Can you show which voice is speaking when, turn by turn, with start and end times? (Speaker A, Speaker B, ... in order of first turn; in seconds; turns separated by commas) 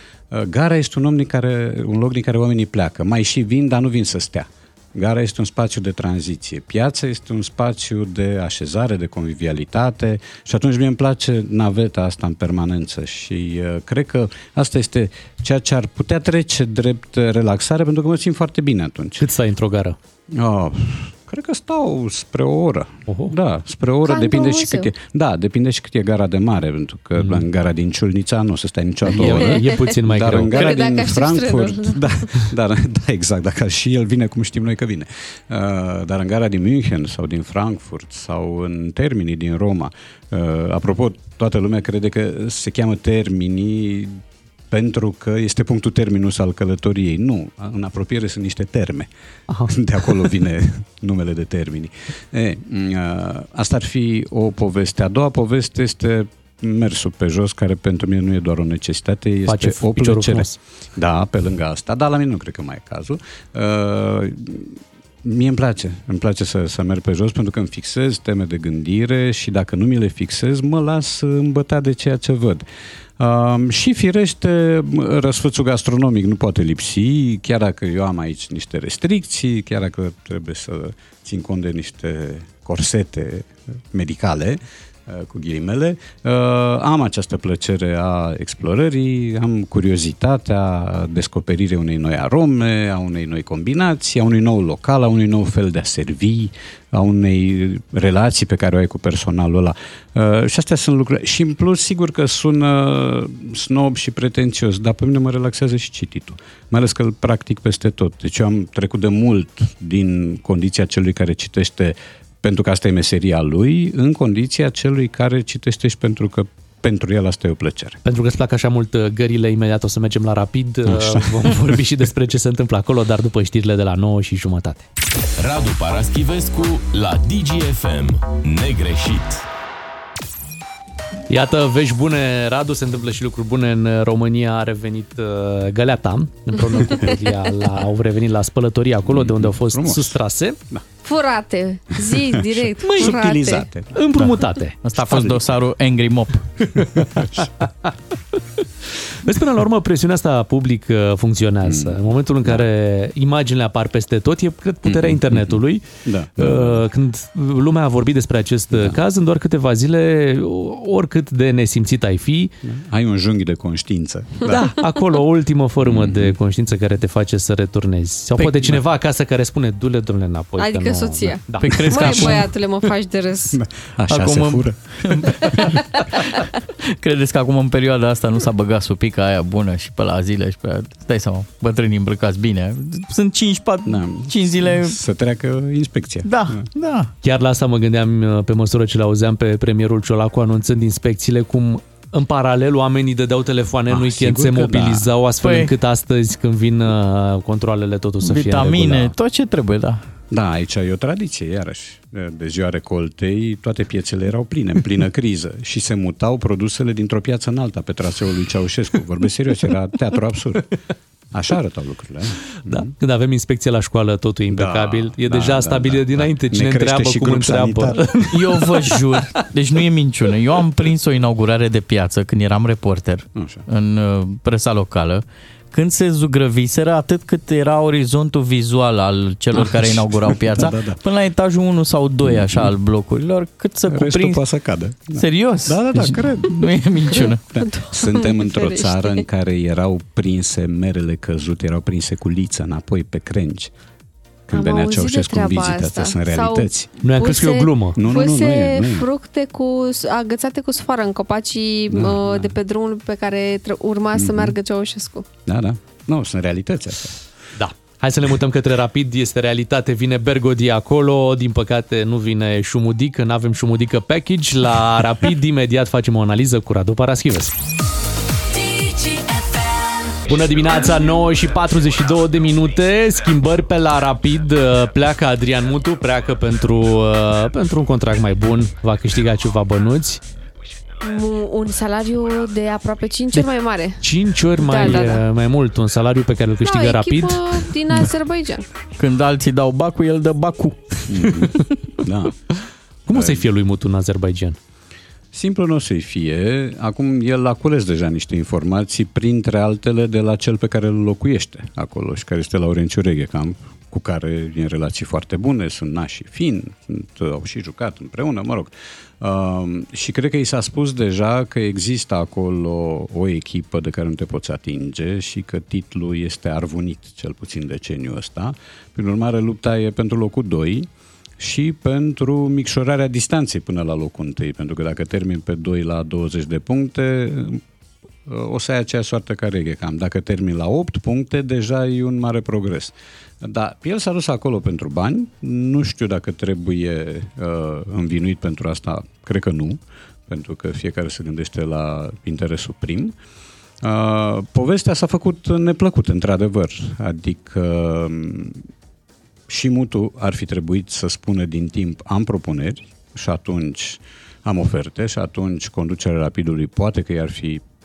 Speaker A: 0.3-19.2, Speaker B: 19.2-19.9, Speaker A: 20.3-44.1, Speaker B: 23.1-23.3, Speaker C: 24.0-24.9, Speaker B: 27.2-27.4, Speaker C: 29.1-29.8, Speaker B: 29.1-30.7, Speaker C: 30.5-32.4, Speaker A: 44.7-49.1, Speaker B: 49.5-49.7, Speaker A: 49.7-72.6, Speaker B: 59.5-60.6, Speaker A: 73.2-118.0, Speaker B: 118.0-124.8, Speaker A: 120.9-121.5, Speaker D: 125.4-129.4, Speaker B: 131.3-140.6, Speaker A: 139.1-140.2, Speaker C: 141.0-143.7, Speaker A: 142.1-145.5, Speaker B: 142.8-143.1, Speaker B: 143.9-144.8, Speaker E: 144.8-146.5, Speaker A: 146.7-147.5, Speaker B: 149.2-155.8, Speaker A: 151.7-152.6, Speaker A: 154.8-156.8, Speaker B: 156.4-162.5, Speaker A: 158.7-159.0, Speaker A: 162.6-164.7, Speaker B: 164.5-172.4, Speaker A: 165.8-166.3, Speaker A: 168.5-168.8, Speaker C: 170.6-173.6, Speaker E: 171.6-172.4, Speaker A: 173.5-175.6, Speaker E: 174.1-185.0, Speaker A: 183.8-186.7, Speaker E: 186.2-187.1, Speaker B: 187.2-199.1, Speaker A: 193.9-195.1, Speaker E: 195.4-195.7, Speaker E: 198.2-200.0, Speaker A: 200.3-210.7, Speaker A: 211.3-212.9, Speaker B: 212.7-219.4, Speaker A: 214.5-218.2, Speaker E: 218.3-234.4, Speaker A: 223.3-223.6, Speaker A: 229.5-231.0, Speaker A: 232.2-232.7, Speaker A: 233.9-236.6, Speaker E: 235.1-237.4, Speaker A: 237.5-243.7, Speaker C: 237.6-239.2, Speaker A: 244.5-246.9, Speaker C: 244.5-255.2, Speaker B: 247.0-248.0, Speaker A: 247.9-249.1, Speaker A: 251.9-252.5, Speaker A: 254.1-254.6, Speaker A: 255.5-257.2, Speaker B: 257.6-267.5, Speaker B: 270.2-280.2, Speaker C: 281.0-284.0, Speaker B: 284.0-287.4, Speaker C: 284.6-285.2, Speaker C: 286.6-288.6, Speaker E: 289.0-290.8, Speaker A: 291.1-292.4, Speaker B: 293.1-294.6, Speaker A: 293.1-293.4, Speaker A: 295.3-320.9, Speaker A: 321.4-327.6, Speaker A: 328.2-343.1, Speaker A: 343.8-348.6, Speaker A: 349.5-357.6